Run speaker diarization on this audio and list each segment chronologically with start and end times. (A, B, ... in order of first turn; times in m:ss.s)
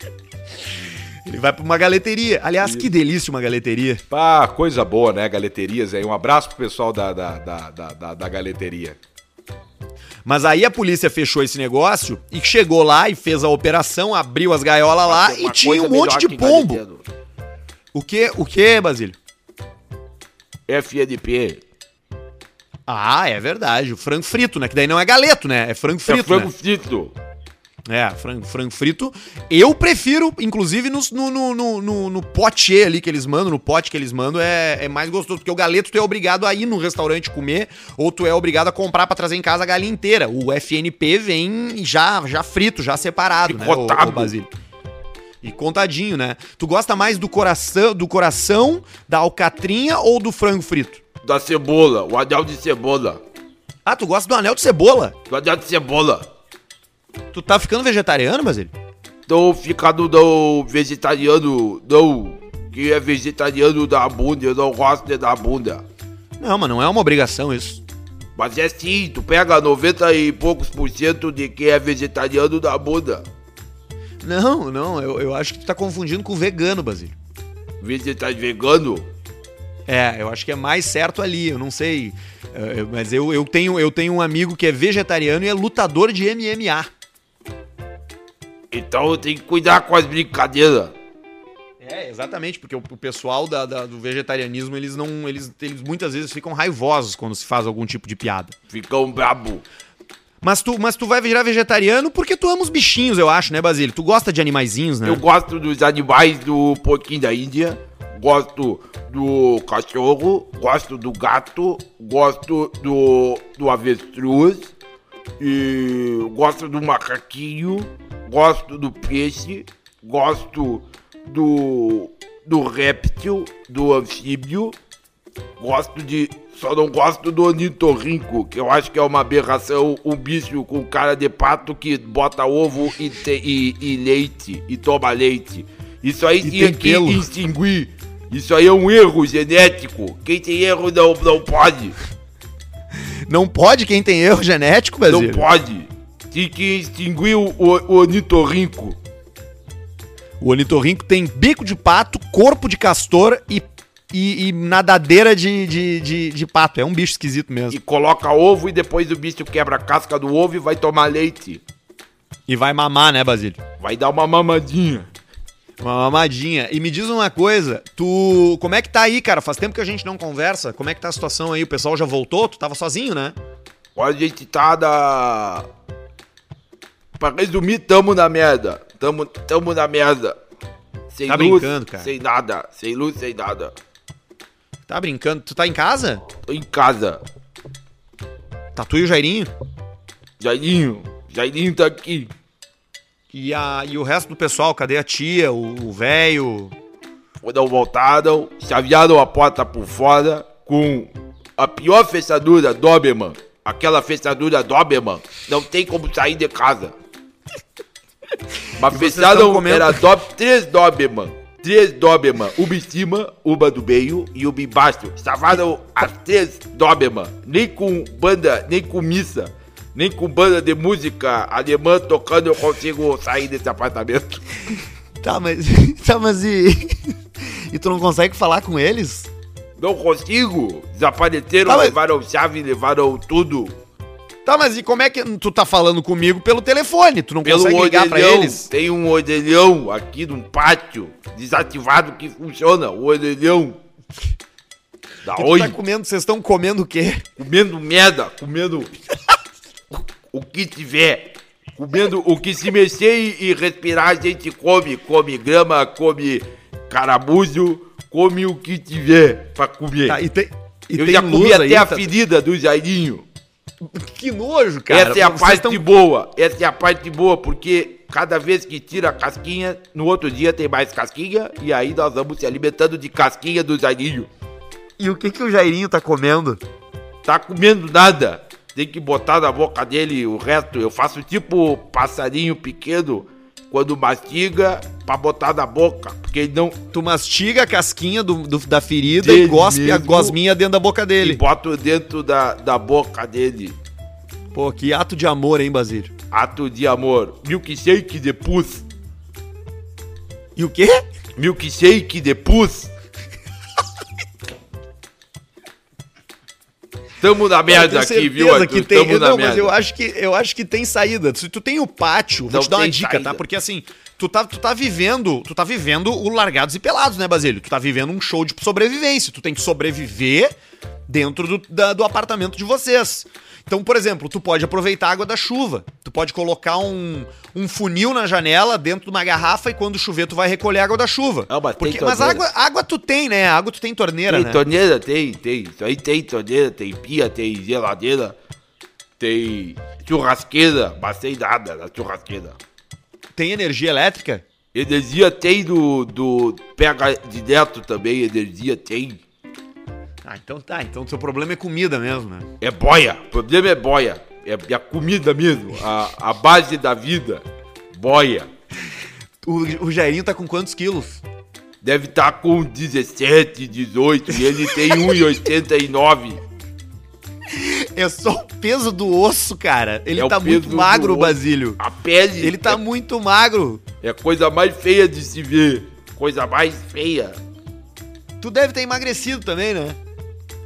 0:01.2-0:04.0 A
0:02.6-0:02.9 B
0:04.1-0:09.0 B
0:10.2-0:16.8 A
0:15.0-0:17.0 C
0:17.9-0:19.2 A
0:20.7-0:21.6 C
0:22.9-0:26.5 A
0:26.0-0:27.1 C
0:27.9-0:44.5 A
0:43.4-0:44.3 C
0:45.4-0:51.0 A
0:51.2-0:53.2 C
0:53.8-0:55.1 A
0:55.3-0:56.3 C
0:57.3-0:58.7 A
0:59.3-1:05.8 C
1:06.4-1:07.8 A
1:08.4-1:13.2 C
1:14.2-1:17.1 A
1:17.8-1:19.1 C
1:19.9-1:26.9 A
1:28.7-1:30.9 C
1:31.8-1:38.5 A
1:38.7-1:39.6 C
1:40.4-1:45.2 A
1:45.0-1:54.7 C
1:55.4-2:04.7 C
2:05.6-2:21.9 C
2:16.4-2:17.2 A
2:23.3-2:25.4 A
2:25.1-2:29.0 C
2:30.4-2:37.8 A
2:37.7-2:41.6 C
2:42.5-2:43.6 A
2:43.8-2:45.1 C
2:45.8-2:53.4 A
2:54.0-2:55.7 C
2:57.2-3:00.4 C
3:01.1-3:03.7 C
3:01.3-3:02.1 A
3:04.9-3:06.2 A
3:06.5-3:07.2 C
3:08.8-3:09.5 A
3:10.4-3:12.3 C
3:13.3-3:16.7 A
3:17.4-3:27.0 C
3:28.8-3:44.6 C
3:28.8-3:30.0 A
3:45.2-3:49.3 A
3:49.8-3:53.8 C
3:51.6-3:52.0 A
3:54.4-3:58.7 A
3:57.4-4:03.8 C
4:05.2-4:05.8 C
4:05.3-4:07.2 A
4:07.4-4:08.9 C
4:09.9-4:20.2 C
4:20.0-4:22.0 A
4:21.0-4:23.2 C
4:23.8-4:25.8 A
4:24.9-4:34.3 C
4:35.0-4:36.6 A
4:37.2-4:46.8 C
4:46.9-4:51.4 A
4:49.2-4:50.4 C
4:51.2-4:53.8 C
4:54.5-4:56.1 A
4:56.3-4:58.8 C
5:00.6-5:01.0 A
5:01.4-5:02.9 C
5:07.2-5:09.7 C
5:07.7-5:20.5 A
5:12.5-5:13.4 C
5:21.1-5:34.6 A
5:31.5-5:32.5 C
5:34.3-5:38.3 C
5:39.2-5:42.6 C
5:43.4-5:44.4 A
5:44.7-5:49.2 C
5:50.2-5:52.5 A
5:52.6-5:58.5 C
5:59.4-6:01.2 A
6:01.8-6:06.4 C
6:07.5-6:11.8 A
6:10.2-6:12.8 C
6:12.4-6:13.8 A
6:14.0-6:17.4 C
6:18.4-6:20.0 A